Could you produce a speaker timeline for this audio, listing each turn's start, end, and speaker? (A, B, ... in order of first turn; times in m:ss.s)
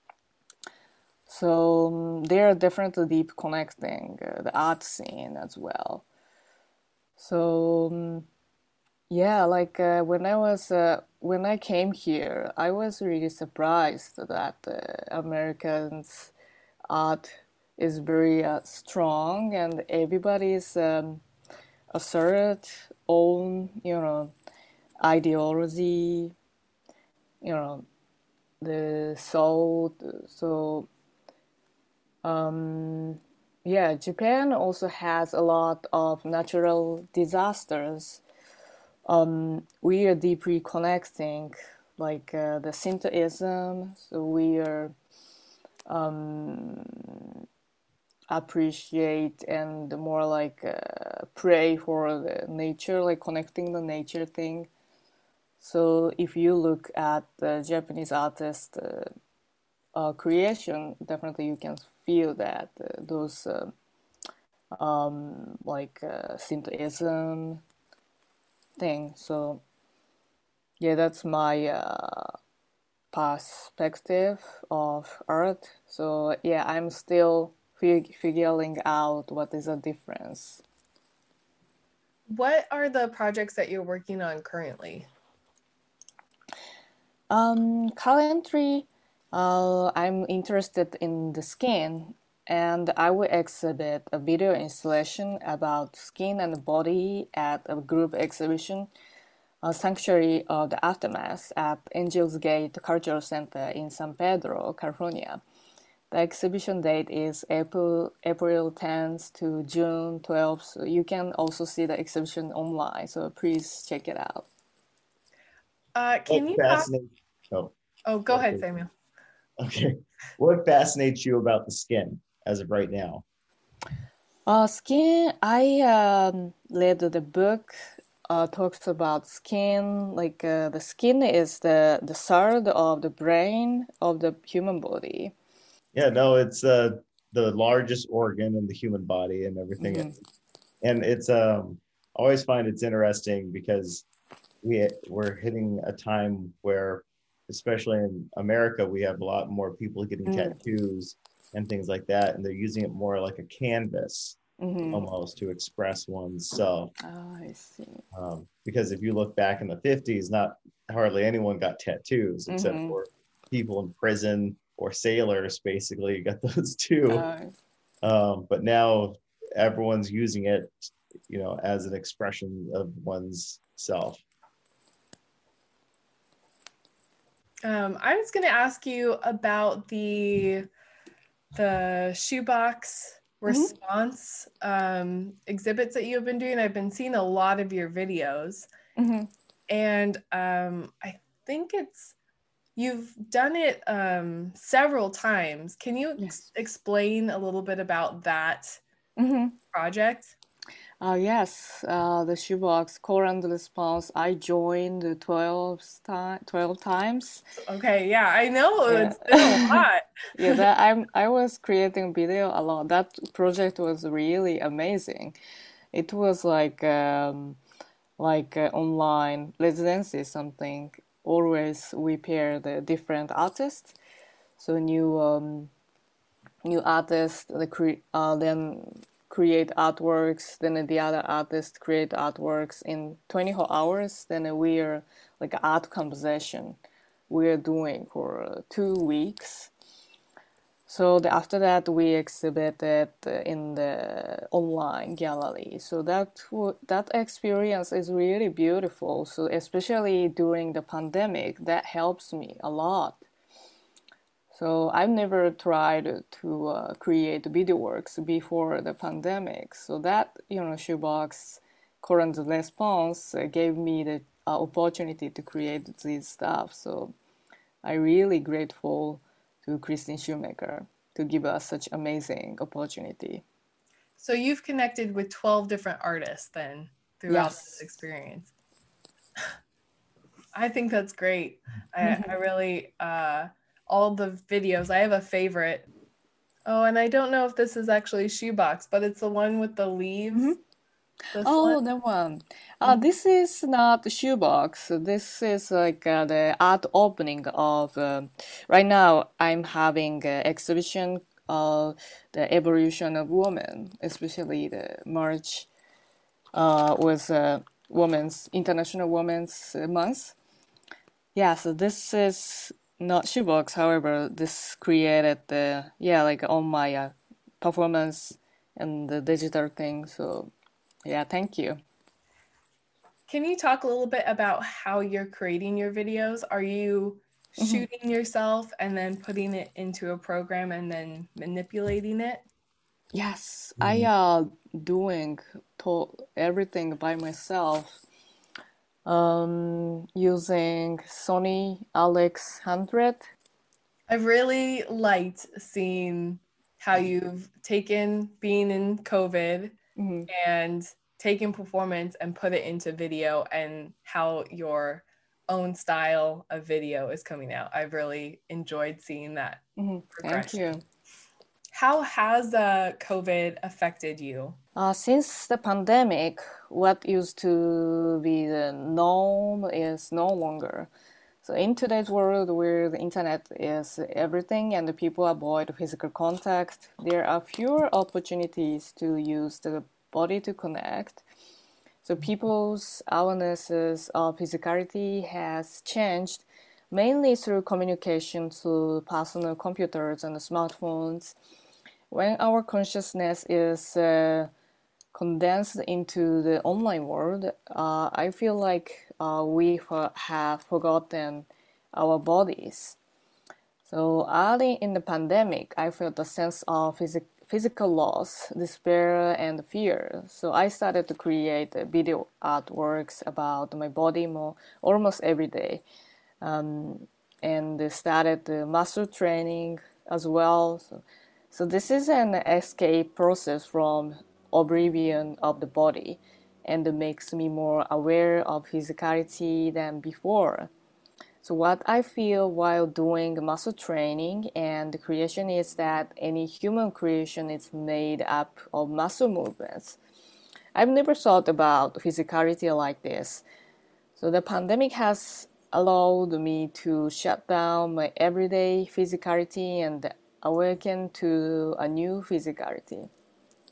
0:01.3-0:06.0 A
0:07.2-0:08.3 A
0:09.1-0:16.3 A
0:16.9-0:21.2 A
0:21.9-0:24.3 A
0:25.0-0:26.3 A
0:27.4-0:27.8 A
0:28.6-0:30.9 A
0:32.2-0:38.2 A
0:39.1-0:44.9 A
0:45.9-0:47.3 A
0:48.3-0:54.7 A
0:55.6-0:59.1 A
1:00.0-1:03.7 A
1:04.8-1:07.6 A
1:08.8-1:09.6 A
1:10.8-1:12.4 A
1:13.1-1:20.6 A
1:22.3-1:25.1 B
1:27.3-1:38.9 A
1:39.6-1:45.4 A
1:46.1-1:54.5 A
1:56.0-1:56.9 B
1:56.3-1:57.8 C
1:58.1-1:58.9 B
1:58.3-1:58.7 C
1:59.6-2:03.2 C
2:04.5-2:07.8 A
2:08.3-2:15.3 A
2:16.0-2:20.1 C
2:19.8-2:20.2 A
2:20.8-2:24.0 C
2:24.6-2:34.4 C
2:30.3-2:30.6 A
2:34.6-2:35.1 A
2:34.9-2:36.9 C
2:37.0-2:38.0 A
2:38.1-2:47.3 C
2:42.5-2:43.0 A
2:47.1-2:47.5 A
2:48.0-2:54.2 C
2:57.6-3:00.7 B
3:01.5-3:08.7 B
3:03.5-3:03.7 A
3:09.0-3:09.3 A
3:09.7-3:12.1 B
3:12.8-3:18.8 B
3:16.2-3:16.4 A
3:19.2-3:19.6 A
3:19.7-3:20.4 B
3:21.0-3:27.4 A
3:27.6-3:30.6 B
3:28.9-3:29.8 A
3:30.4-3:35.4 A
3:35.9-3:37.6 A
3:38.2-3:44.0 A
3:44.6-3:45.7 A
3:46.6-3:56.8 A
3:57.3-3:59.7 A
4:00.9-4:13.2 A
4:14.5-4:27.1 A
4:27.8-4:33.4 A
4:34.2-4:38.5 B
4:37.3-4:37.7 A
4:40.6-4:45.9 B
4:42.0-4:42.3 A
4:46.7-4:50.6 B
4:51.3-4:51.8 B
4:51.4-5:05.7 A
5:06.6-5:10.4 A
5:11.4-5:20.5 A
5:21.1-5:21.8 A
5:23.3-5:32.5 B
5:27.6-5:27.9 A
5:33.1-5:38.0 A
5:33.8-5:34.1 C
5:39.1-5:43.3 A
5:44.1-5:49.8 B
5:50.0-5:50.3 A
5:50.3-5:59.6 B
5:59.8-6:00.8 A
6:00.1-6:00.6 B
6:01.7-6:04.6 B
6:04.8-6:10.9 A
6:11.4-6:21.2 A
6:22.0-6:31.4 A
6:32.1-6:34.5 A
6:35.1-6:43.0 A
6:43.8-6:55.8 A
6:56.4-7:10.7 A
7:11.4-7:20.0 A
7:20.8-7:23.4 A
7:24.2-7:33.1 A